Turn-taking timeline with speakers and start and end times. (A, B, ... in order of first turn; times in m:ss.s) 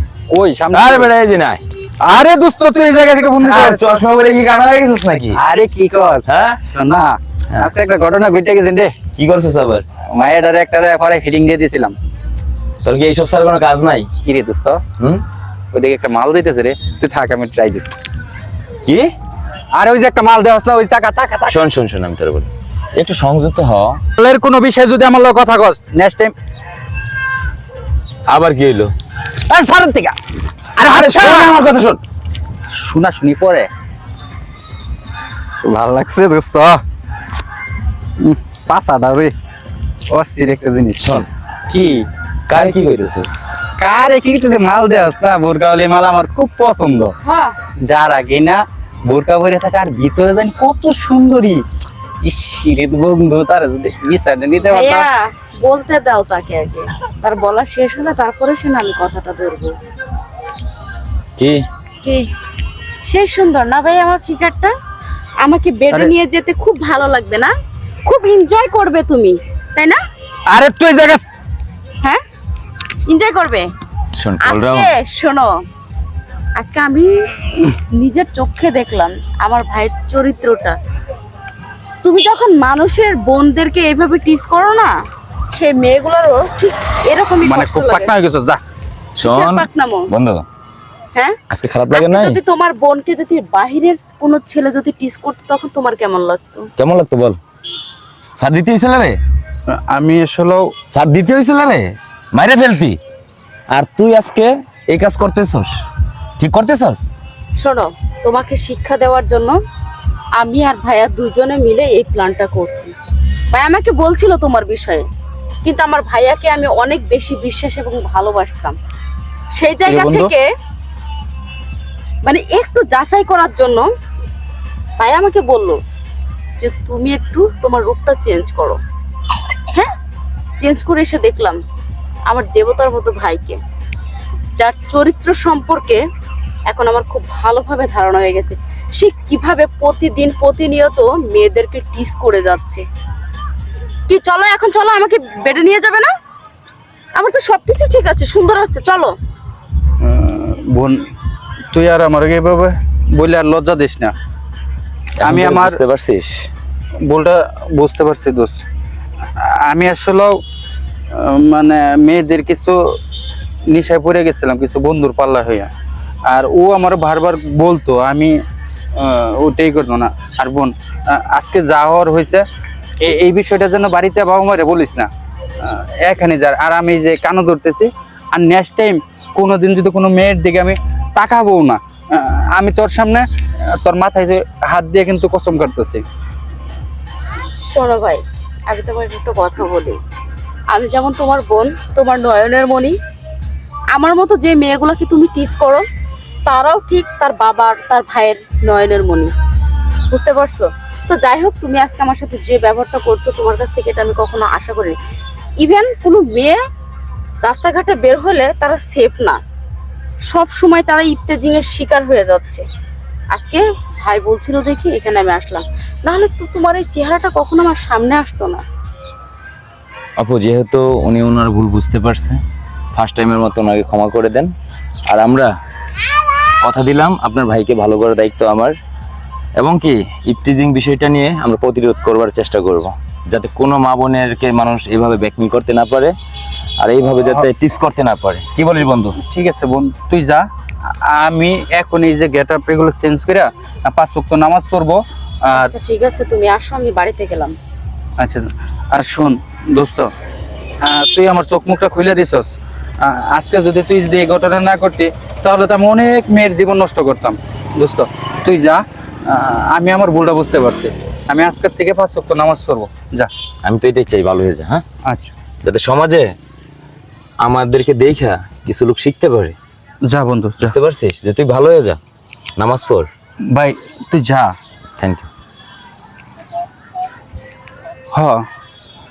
0:00.3-0:01.1 A
0:00.7-0:01.6 B
0:02.0-0:03.8 A
0:03.4-0:05.4 B
0:05.3-0:08.9 A
0:06.2-0:06.6 B
0:09.2-0:09.8 B
0:10.1-0:11.9 A
0:12.8-0:14.1 B
0:14.2-0:14.8 A
0:15.0-0:15.2 B
0:15.7-0:17.9 A
0:18.8-0:19.1 B
0:19.7-0:21.6 A
0:21.5-0:24.0 B
0:24.2-0:26.3 A
0:28.3-0:28.9 B
0:29.5-0:30.2 A
0:30.8-0:31.6 A
0:30.8-0:32.0 B
0:32.8-0:33.7 A
0:35.6-0:36.8 A
0:38.2-0:39.3 A
0:40.1-0:42.0 A
0:41.0-0:41.3 B
0:42.5-0:43.6 B
0:43.8-0:47.1 A
0:47.2-0:47.6 C
0:47.8-0:51.6 A
0:52.2-0:55.0 A
0:54.7-0:59.7 C
1:01.4-1:01.6 B
1:02.0-1:02.3 C
1:03.0-1:04.7 C
1:05.4-1:07.5 C
1:08.0-1:10.0 C
1:10.5-1:11.2 A
1:13.0-1:13.7 C
1:14.2-1:14.9 B
1:14.4-1:15.5 C
1:16.6-1:17.1 C
1:17.9-1:20.8 C
1:22.0-1:24.9 C
1:25.5-1:28.1 C
1:27.4-1:28.6 A
1:29.2-1:30.4 B
1:29.2-1:30.1 C
1:31.5-1:32.4 B
1:31.9-1:36.7 C
1:36.8-1:37.4 B
1:38.4-1:39.2 B
1:39.7-1:40.7 A
1:40.9-1:43.0 B
1:43.7-1:45.8 B
1:46.4-1:47.2 B
1:47.6-1:49.6 C
1:50.4-1:52.9 C
1:53.5-1:55.0 C
1:55.6-1:58.8 C
1:59.6-2:00.4 C
1:59.8-2:00.3 A
2:02.2-2:03.8 C
2:05.0-2:05.8 C
2:06.6-2:08.8 C
2:10.6-2:11.6 C
2:12.3-2:13.6 C
2:14.6-2:16.0 C
2:16.7-2:22.8 C
2:24.1-2:26.1 C
2:27.2-2:29.1 C
2:30.0-2:31.0 A
2:31.7-2:34.1 A
2:35.2-2:36.5 B
2:35.2-2:35.8 A
2:37.0-2:38.6 A
2:39.4-2:40.4 A
2:41.1-2:42.8 A
2:43.7-2:45.7 A
2:46.3-2:48.4 A
2:49.0-2:52.4 A
2:53.0-2:55.1 A
2:55.6-3:03.2 A
3:03.8-3:06.0 A
3:07.7-3:10.0 C
3:10.7-3:13.0 C
3:13.9-3:15.8 C
3:16.4-3:19.3 C
3:20.1-3:25.0 C
3:25.6-3:26.6 C
3:27.4-3:29.4 C
3:30.3-3:32.6 C
3:33.3-3:38.6 C
3:40.2-3:42.4 B
3:42.9-3:44.5 B
3:45.1-3:45.5 B
3:46.6-3:48.7 B
3:49.6-3:56.1 B
3:56.8-3:59.2 B
3:57.2-3:57.5 A
3:59.2-4:00.4 A
4:01.0-4:05.7 A
4:05.5-4:07.6 C
4:08.2-4:10.1 A
4:10.8-4:23.3 A
4:23.6-4:24.8 B
4:25.0-4:25.3 A
4:25.6-4:26.3 B
4:27.4-4:29.6 B
4:30.1-4:30.7 A
4:30.6-4:32.0 B
4:32.6-4:33.1 B
4:33.5-4:34.5 A
4:35.0-4:35.3 B
4:38.1-4:38.4 A